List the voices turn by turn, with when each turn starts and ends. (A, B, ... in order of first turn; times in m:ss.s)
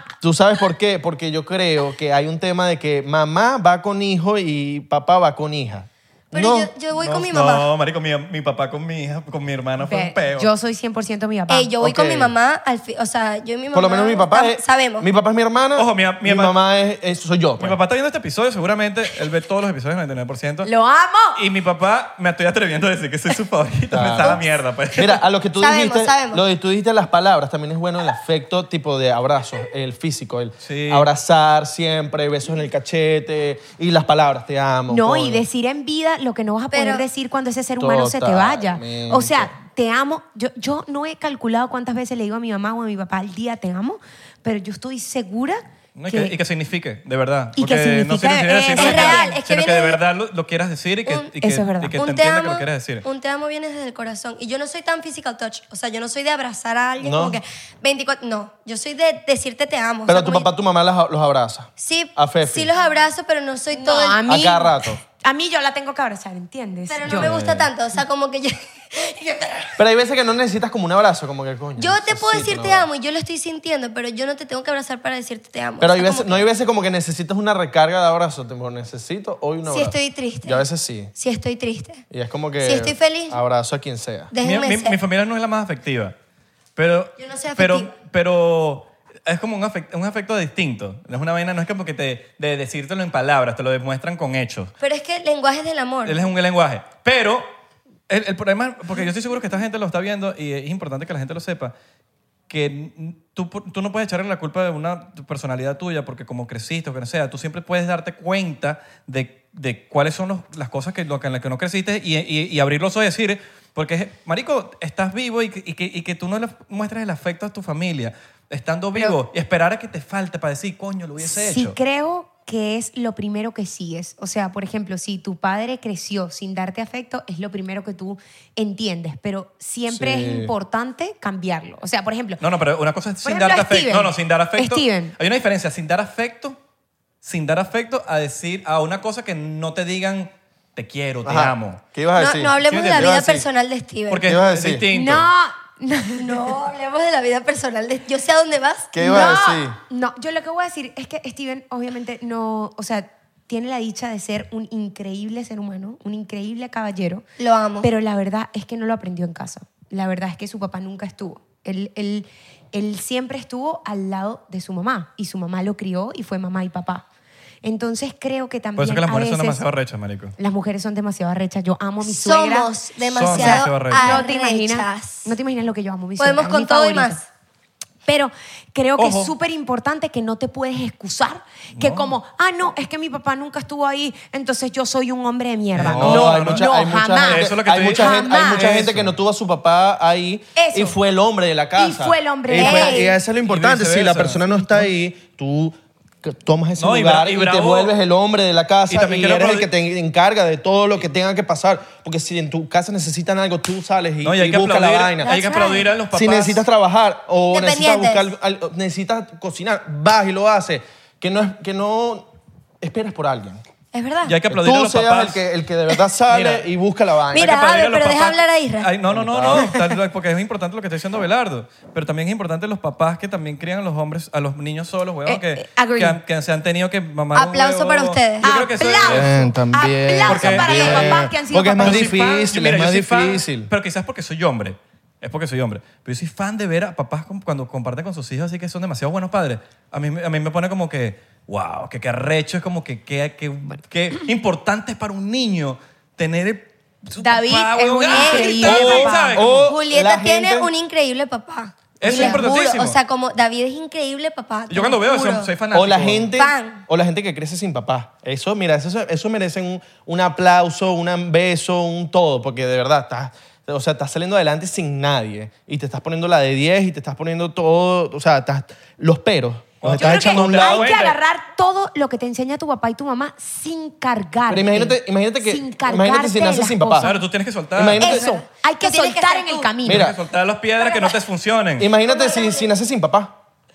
0:00.2-0:06.7 A
0:06.3-0:07.7 B
0:06.9-0:10.5 C
0:09.8-0:11.7 D
0:11.5-0:15.1 B
0:11.8-0:12.3 A
0:13.7-0:17.8 A
0:15.8-0:16.5 C
0:17.6-0:20.7 C
0:20.6-0:21.4 D
0:21.3-0:25.2 C
0:23.9-0:24.4 A
0:24.9-0:35.4 A
0:25.6-0:26.4 B
0:30.6-0:31.1 C
0:34.9-0:46.4 D
0:36.7-0:37.1 B
0:37.8-0:39.5 A
0:46.0-0:53.0 C
0:47.6-0:49.4 D
0:48.7-0:50.0 B
0:51.0-0:51.4 B
0:51.4-0:52.0 D
0:52.0-1:00.5 B
0:57.0-0:57.4 A
1:00.1-1:02.7 A
1:01.8-1:04.3 B
1:03.7-1:07.4 D
1:04.2-1:05.0 A
1:06.9-1:09.8 B
1:07.1-1:07.7 A
1:09.8-1:12.8 A
1:11.8-1:16.4 B
1:15.8-1:21.1 A
1:19.6-1:22.0 B
1:22.1-1:24.3 A
1:22.6-1:23.4 B
1:24.3-1:25.0 B
1:24.4-1:26.1 C
1:26.8-1:34.7 C
1:27.2-1:27.9 B
1:34.8-1:36.3 B
1:36.0-1:37.5 C
1:38.1-1:41.7 C
1:42.5-2:01.8 C
2:01.2-2:12.4 D
2:09.9-2:10.5 A
2:12.4-2:16.6 C
2:13.2-2:15.1 D
2:17.2-2:21.8 C
2:21.2-2:23.2 A
2:22.2-2:24.3 B
2:22.6-2:23.4 C
2:24.1-2:25.3 C
2:24.2-2:24.8 A
2:24.9-2:26.4 D
2:26.2-2:29.0 B
2:28.9-2:29.8 A
2:29.0-2:37.2 D
2:37.4-2:37.9 B
2:37.8-2:47.0 D
2:47.6-2:49.6 D
2:48.8-2:50.3 C
2:50.4-2:57.2 D
2:52.0-2:55.3 B
2:53.1-2:54.3 C
2:56.2-2:57.2 B
2:58.0-3:08.7 D
2:59.0-2:59.3 C
3:01.8-3:02.1 C
3:05.7-3:06.7 C
3:05.8-3:25.3 A
3:07.2-3:09.1 C
3:10.6-3:11.0 D
3:11.7-3:13.2 D
3:12.5-3:13.1 B
3:13.4-3:14.4 C
3:14.5-3:14.8 D
3:16.8-3:17.9 C
3:18.9-3:19.7 C
3:24.2-3:26.6 C
3:25.2-3:25.9 D
3:26.1-3:32.3 A
3:27.5-3:28.3 B
3:32.8-3:33.6 A
3:33.9-3:34.4 B
3:34.2-3:35.4 C
3:34.5-3:37.5 A
3:36.3-3:36.6 C
3:37.3-3:38.9 B
3:37.3-3:49.5 C
3:39.1-3:39.8 A
3:45.2-3:46.2 D
3:47.3-3:48.4 B
3:48.4-3:52.3 D
3:49.0-3:53.7 A
3:50.3-4:09.7 C
4:07.2-4:09.4 D
4:08.1-4:15.5 B
4:09.3-4:10.7 A
4:12.0-4:13.0 C
4:12.1-4:12.5 D
4:14.7-4:16.3 C
4:15.7-4:31.0 A
4:16.3-4:16.8 B
4:29.8-4:31.2 C
4:30.0-4:37.2 D
4:34.5-4:37.1 A
4:37.0-4:38.1 C
4:37.7-4:38.3 A
4:38.0-4:40.1 D
4:38.0-4:39.8 B
4:39.8-4:40.2 A
4:39.9-4:41.9 C
4:40.8-4:41.2 B
4:41.8-4:43.4 A
4:42.0-4:42.7 B